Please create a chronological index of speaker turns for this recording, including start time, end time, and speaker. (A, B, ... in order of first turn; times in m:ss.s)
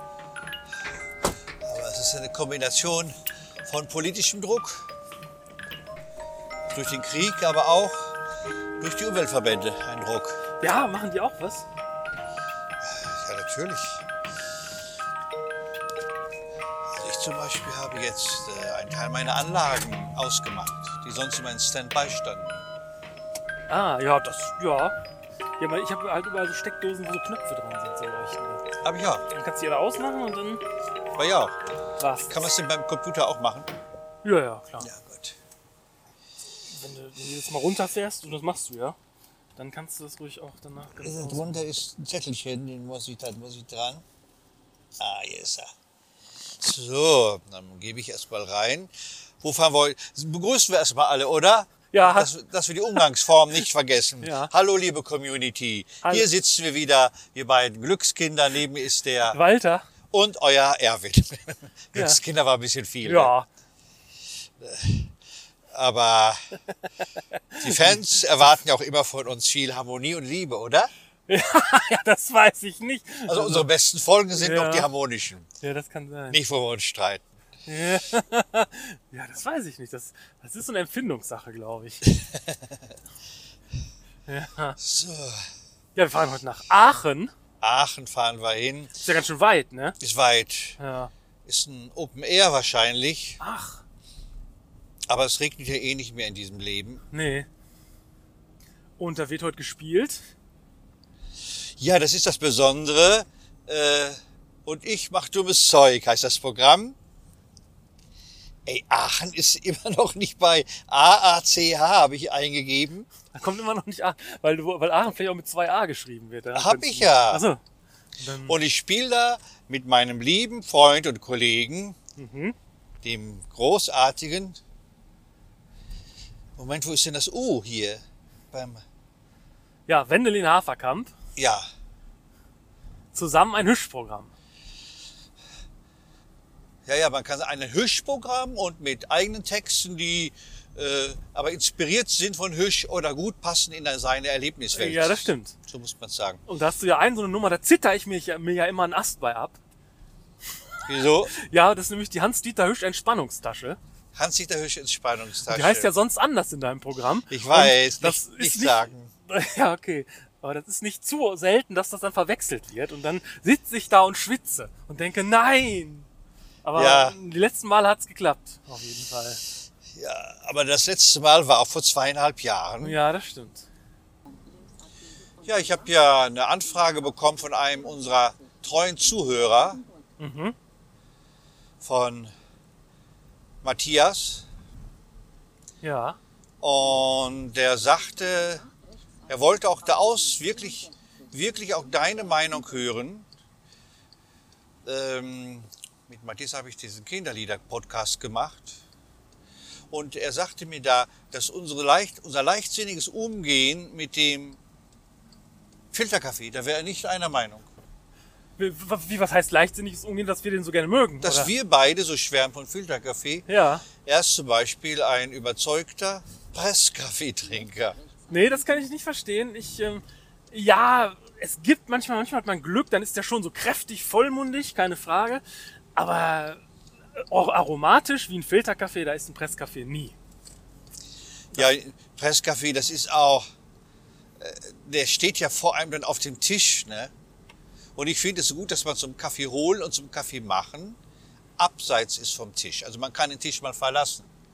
0:01.6-0:03.1 A
0:03.6-0:04.8 A
0:06.7-0:08.2 A
0:08.8-0:10.4 A
0:10.6-0:11.7 B
0:12.8-0:14.0 A
0:16.9-0:22.6 A
0:23.7-0:25.0 B
0:25.6-0:28.7 B
0:28.8-0:29.2 A
0:29.3-0:30.6 B
0:31.2-0:31.6 A
0:32.0-0:32.5 B
0:32.2-0:33.7 A
0:34.2-0:34.9 B
0:34.8-0:35.4 A
0:36.7-0:39.0 B
0:39.6-0:41.6 B
0:41.0-0:44.0 A
0:45.0-0:45.7 A
0:46.5-0:59.4 A
0:51.9-0:52.3 B
0:54.2-0:54.5 B
0:59.3-0:59.9 B
1:00.1-1:03.3 A
1:03.0-1:03.5 B
1:04.6-1:05.1 A
1:05.7-1:06.6 A
1:07.5-1:08.0 B
1:07.6-1:10.9 A
1:11.3-1:13.7 B
1:13.3-1:15.4 A
1:14.3-1:14.9 B
1:15.6-1:16.4 B
1:16.3-1:17.3 A
1:17.6-1:22.1 B
1:22.0-1:22.6 A
1:24.3-1:24.8 B
1:24.8-1:25.5 A
1:25.9-1:27.3 B
1:27.6-1:28.9 A
1:29.0-1:30.0 B
1:30.0-1:30.8 A
1:30.8-1:31.1 B
1:31.4-1:33.4 A
1:33.4-1:33.8 B
1:35.1-1:37.0 A
1:37.1-1:37.5 B
1:39.0-1:40.2 B
1:41.8-1:47.0 A
1:48.6-1:53.1 A
1:53.3-1:57.6 B
1:56.5-1:57.4 A
1:58.2-1:58.6 B
1:58.4-2:02.0 A
2:02.2-2:02.5 B
2:03.0-2:04.6 A
2:06.6-2:08.8 A
2:09.9-2:11.1 B
2:11.4-2:11.6 A
2:13.1-2:14.3 B
2:16.8-2:26.4 A
2:24.7-2:25.6 B
2:26.5-2:29.6 B
2:30.9-2:31.3 A
2:31.3-2:33.8 B
2:34.1-2:35.9 A
2:35.5-2:46.1 B
2:37.3-2:39.1 A
2:46.6-2:49.4 B
2:46.7-2:47.2 A
2:49.9-2:53.0 A
2:52.8-2:53.6 B
2:55.4-2:59.8 A
3:00.2-3:00.5 B
3:01.8-3:02.3 A
3:03.6-3:04.4 A
3:05.8-3:06.2 B
3:06.6-3:08.7 A
3:09.3-3:13.3 A
3:14.8-3:18.8 A
3:19.9-3:24.6 A
3:25.9-3:27.7 A
3:28.6-3:31.5 B
3:31.2-3:33.5 A
3:33.5-3:33.9 B
3:34.0-3:38.0 A
3:38.3-3:45.4 B
3:46.0-3:46.6 B
3:47.2-3:50.1 B
3:51.5-3:53.4 A
3:54.4-3:57.1 A
3:58.0-4:01.0 A
4:01.6-4:04.2 A